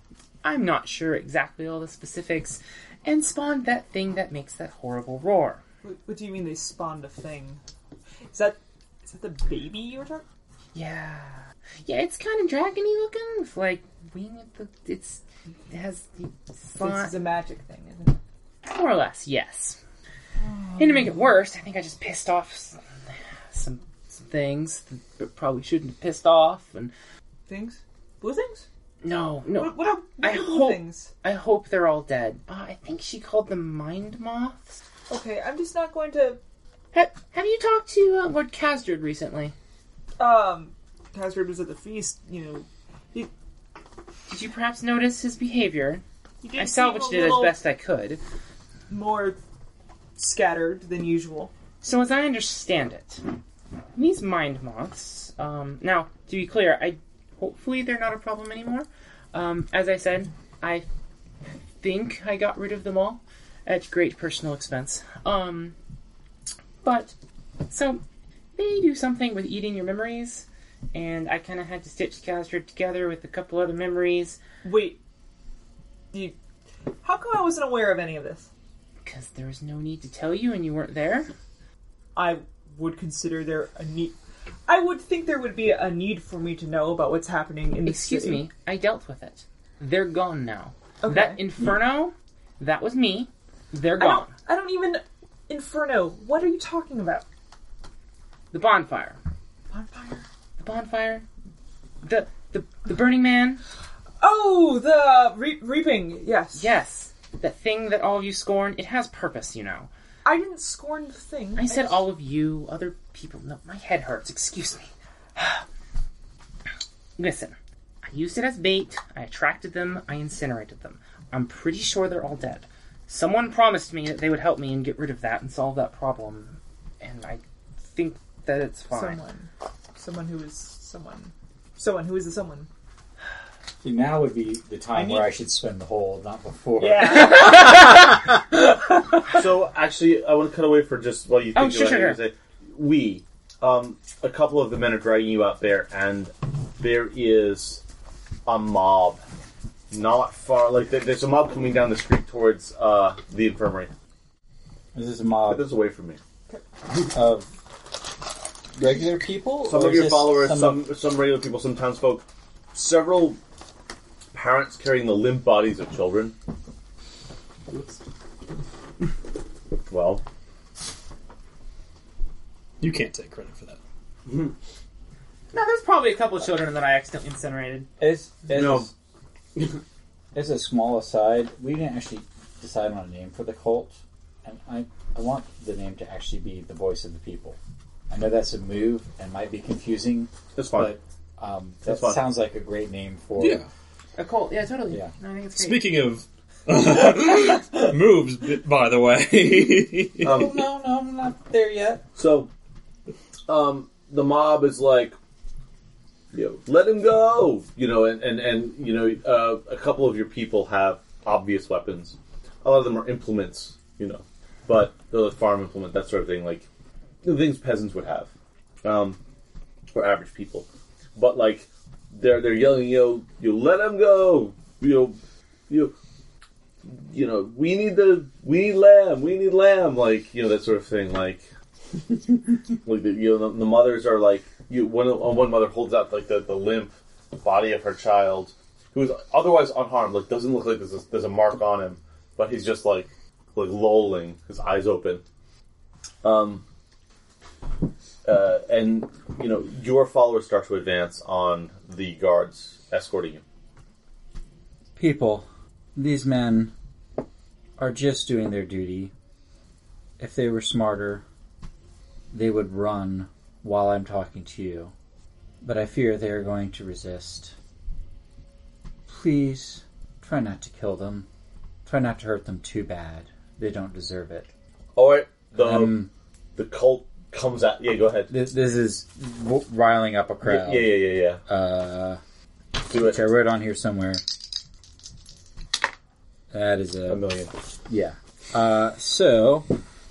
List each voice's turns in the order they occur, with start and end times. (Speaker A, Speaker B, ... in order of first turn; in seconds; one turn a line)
Speaker A: 0.4-5.6
Speaker B: 5.8-7.6
Speaker B: 8.3-10.2
Speaker A: 10.7-17.1
Speaker B: 16.8-18.2
Speaker A: 18.6-19.8
Speaker B: 20.4-21.2
Speaker A: 20.8-22.8
Speaker A: 23.5-26.9
Speaker B: 27.5-28.6
Speaker A: 29.0-34.8
Speaker B: 29.5-31.1
Speaker B: 35.1-36.4
Speaker A: 36.9-39.5
Speaker B: 40.2-43.3
Speaker A: 44.3-46.0
Speaker B: 46.4-47.6
Speaker A: 46.6-48.2
Speaker B: 48.9-49.4
Speaker B: 50.1-51.5
Speaker A: 51.8-53.2
Speaker A: 53.9-60.9
Speaker A: 61.8-65.8
Speaker A: 66.8-67.1
Speaker A: 67.7-68.0
Speaker A: 68.5-74.4
Speaker B: 74.6-75.0
Speaker B: 77.0-78.5
Speaker A: 79.0-81.3
Speaker B: 82.1-88.5
Speaker A: 87.8-94.3
Speaker B: 91.0-91.5
Speaker B: 93.9-97.2
Speaker A: 98.5-99.2
Speaker B: 99.7-100.2
Speaker A: 100.6-101.2
Speaker A: 102.0-103.6
Speaker B: 104.2-106.7
Speaker A: 106.5-109.9
Speaker B: 110.2-112.0
Speaker A: 111.5-115.6
Speaker A: 117.2-129.2
Speaker B: 128.9-132.7
Speaker C: 133.8-138.0
Speaker B: 134.9-135.3
Speaker B: 136.8-137.9
Speaker D: 139.3-147.8
Speaker A: 141.5-142.2
Speaker D: 148.4-149.2
Speaker D: 149.9-153.9
Speaker C: 154.9-155.7
Speaker D: 155.5-156.2
Speaker C: 157.0-157.5
Speaker C: 158.7-160.8
Speaker D: 159.7-163.4
Speaker D: 164.3-166.3
Speaker E: 167.7-168.0
Speaker D: 169.9-170.2
Speaker E: 172.8-173.8
Speaker A: 175.5-177.9
Speaker C: 178.0-178.9
Speaker D: 178.5-178.9
Speaker C: 180.3-187.6
Speaker C: 188.1-193.7
Speaker D: 190.6-191.0
Speaker D: 191.8-192.3
Speaker E: 193.4-193.7
Speaker A: 194.2-196.1
Speaker E: 195.5-200.4
Speaker D: 200.2-200.6
Speaker C: 200.2-202.1
Speaker D: 202.2-202.5
Speaker D: 203.5-205.2
Speaker D: 206.3-216.7
Speaker D: 217.2-218.3
Speaker D: 218.8-219.2
Speaker D: 219.9-225.2
Speaker D: 225.7-225.9
Speaker D: 226.8-231.4
Speaker D: 232.8-245.2
Speaker D: 246.2-246.6
Speaker D: 248.2-253.4
Speaker C: 254.9-256.7
Speaker C: 257.8-259.1
Speaker C: 260.2-261.2
Speaker C: 262.3-264.9
Speaker C: 265.6-267.5
Speaker C: 269.1-271.3
Speaker C: 271.8-274.5
Speaker D: 274.9-278.3
Speaker C: 275.5-276.1
Speaker C: 278.3-282.2
Speaker D: 280.4-281.4
Speaker D: 282.8-283.3
Speaker C: 282.8-284.2
Speaker C: 286.5-287.2
Speaker D: 287.1-287.5
Speaker C: 287.9-289.7